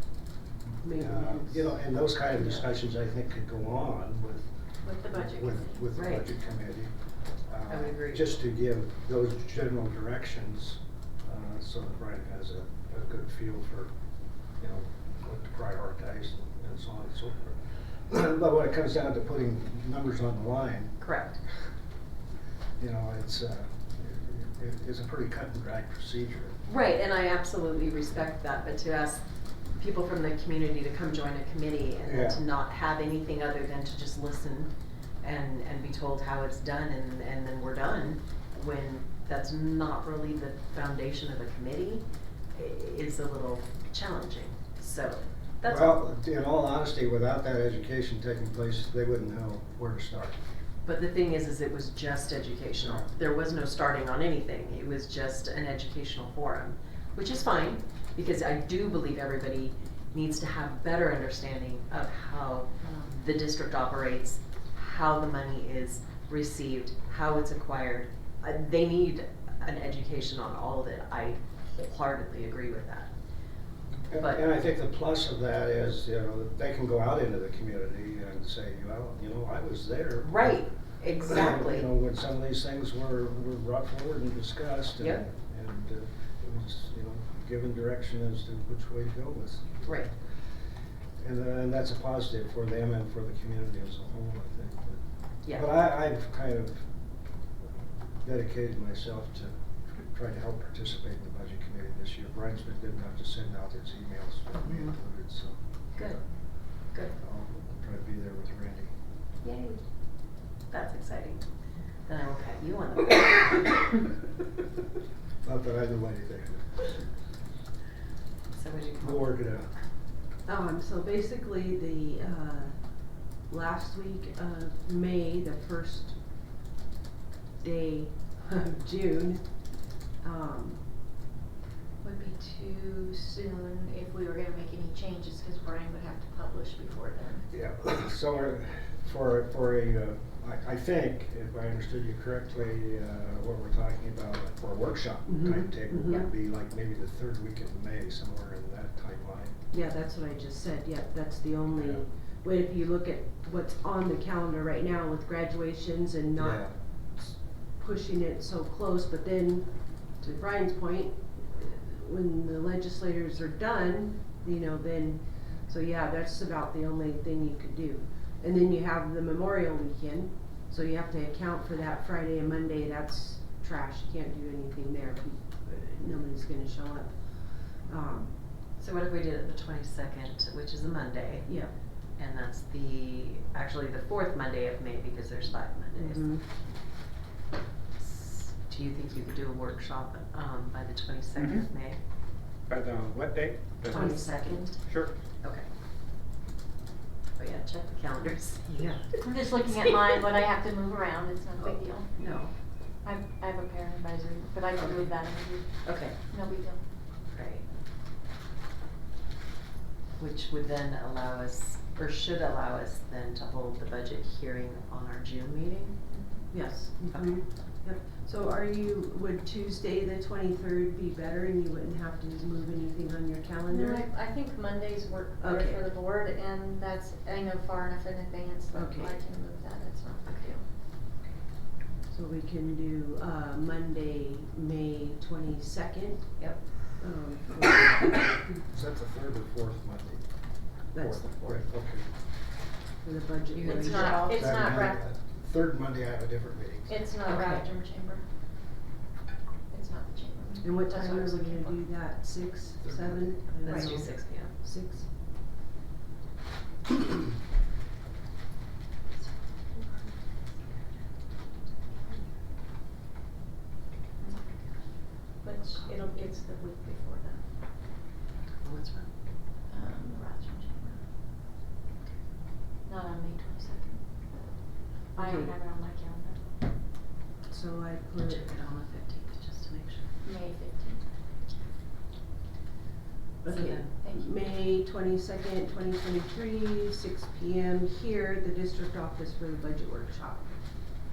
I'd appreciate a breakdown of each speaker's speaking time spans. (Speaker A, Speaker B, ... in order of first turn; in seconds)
Speaker A: 0.8-1.7, 2.4-2.7, 120.5-122.8, 123.5-126.2, 127.6-129.4, 130.2-130.8, 145.3-146.3, 149.7-178.3, 181.5-181.7, 186.0-186.4, 193.9-194.8, 216.5-224.1, 225.4-225.9, 228.7-229.2, 232.1-236.4, 237.0-238.4, 240.9-241.7, 243.0-244.3, 250.6-255.1, 275.2-275.5, 277.5-278.4, 283.4-290.5
Speaker B: 0.9-4.5, 5.0-6.9, 7.5-13.9, 14.6-21.0, 22.8-26.6, 32.0-32.4, 45.6-50.4, 52.8-53.1, 74.1-80.6, 81.2-90.0, 91.2-96.8, 98.2-99.6, 100.1-105.6, 107.2-108.9, 115.4-117.0, 119.0-119.7, 137.5-149.6, 151.8-152.0, 156.4-156.7, 238.6-240.2, 241.0-242.1, 244.2-247.0, 252.8-253.2
Speaker C: 4.8-5.8, 132.0-137.5, 199.2-202.1, 203.0-205.7, 206.3-206.8, 216.1-216.4, 223.7-230.7, 243.6-245.0, 246.9-248.2, 249.7-251.8, 253.7-254.0, 264.2-267.4, 269.7-271.0, 272.8-276.4, 280.2-281.0, 284.0-284.4
Speaker D: 5.9-6.3, 7.7-8.3, 21.0-21.4, 26.7-29.2, 29.8-34.7, 35.2-46.0, 50.9-73.1, 80.2-81.9, 89.8-90.1, 95.4-95.7, 104.6-104.9, 109.4-109.8, 110.7-111.4, 112.1-114.1, 118.5-119.4, 178.8-181.5, 182.2-186.3, 188.0-192.0, 194.0-194.8, 195.4-195.7, 197.4-199.1, 202.2-202.5, 204.8-205.2, 205.8-206.2, 207.3-207.6, 210.2-216.0, 217.1-217.4, 230.2-230.5, 243.5-244.5, 247.3-247.7, 253.6-254.5, 268.6-269.1, 278.1-280.1, 283.5-284.0
Speaker E: 191.4-191.7, 192.7-194.2, 194.9-195.1